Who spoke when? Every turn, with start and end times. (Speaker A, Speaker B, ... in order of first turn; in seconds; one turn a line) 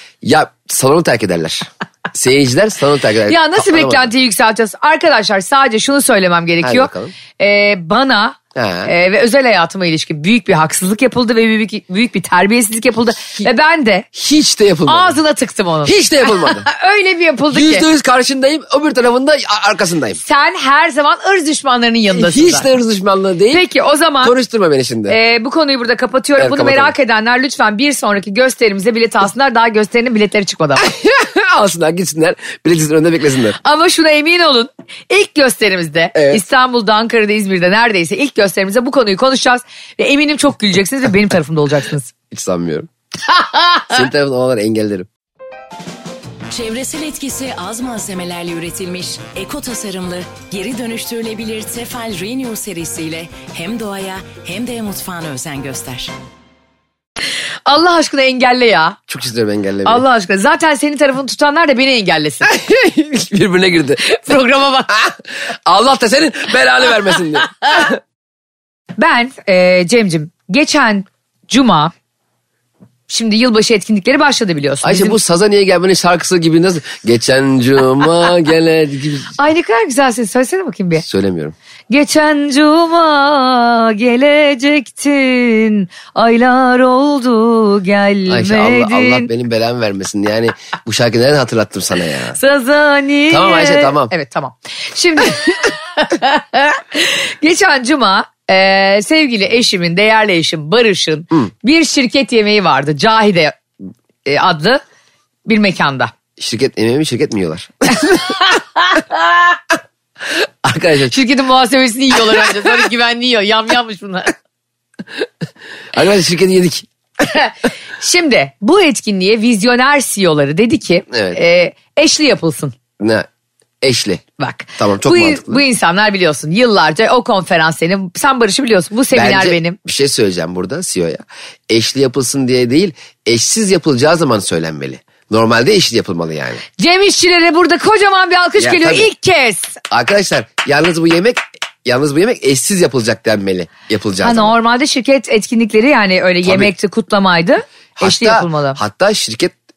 Speaker A: 0.2-4.1
Speaker B: 3.3-14.1
Speaker A: 6.6-7.2
Speaker A: 8.6-8.9
Speaker A: 14.2-15.2
Speaker B: 14.9-17.9
Speaker A: 15.8-16.7
Speaker A: 17.5-20.2
Speaker B: 20.2-22.7
Speaker A: 22.1-23.6
Speaker B: 23.5-24.3
Speaker A: 24.2-25.2
Speaker B: 25.1-30.9
Speaker A: 26.4-26.9
Speaker A: 30.8-33.6
Speaker B: 33.6-42.1
Speaker A: 36.1-36.4
Speaker A: 42.3-42.9
Speaker B: 43.4-43.9
Speaker A: 43.9-45.1
Speaker C: 46.5-56.1
Speaker B: 57.7-59.0
Speaker A: 59.1-60.0
Speaker B: 59.9-62.5
Speaker A: 62.5-64.0
Speaker B: 64.0-65.0
Speaker A: 64.9-68.0
Speaker B: 69.0-71.9
Speaker B: 73.1-75.2
Speaker A: 74.8-79.3
Speaker B: 79.4-81.0
Speaker A: 81.0-81.5
Speaker B: 81.9-89.3
Speaker A: 88.3-92.4
Speaker B: 92.4-103.6
Speaker A: 93.3-94.1
Speaker B: 104.2-104.8
Speaker B: 105.5-106.1
Speaker A: 106.4-108.4
Speaker B: 108.5-109.4
Speaker A: 110.6-111.2
Speaker B: 111.1-114.3
Speaker A: 115.9-116.9
Speaker B: 117.3-122.8
Speaker A: 121.1-121.4
Speaker A: 123.0-123.3
Speaker A: 123.8-124.2
Speaker B: 124.4-129.8
Speaker A: 124.8-125.6
Speaker A: 129.1-136.6
Speaker B: 136.8-139.8
Speaker A: 138.6-139.1
Speaker A: 139.9-144.6
Speaker B: 144.2-148.8
Speaker A: 146.4-146.7
Speaker A: 148.0-149.6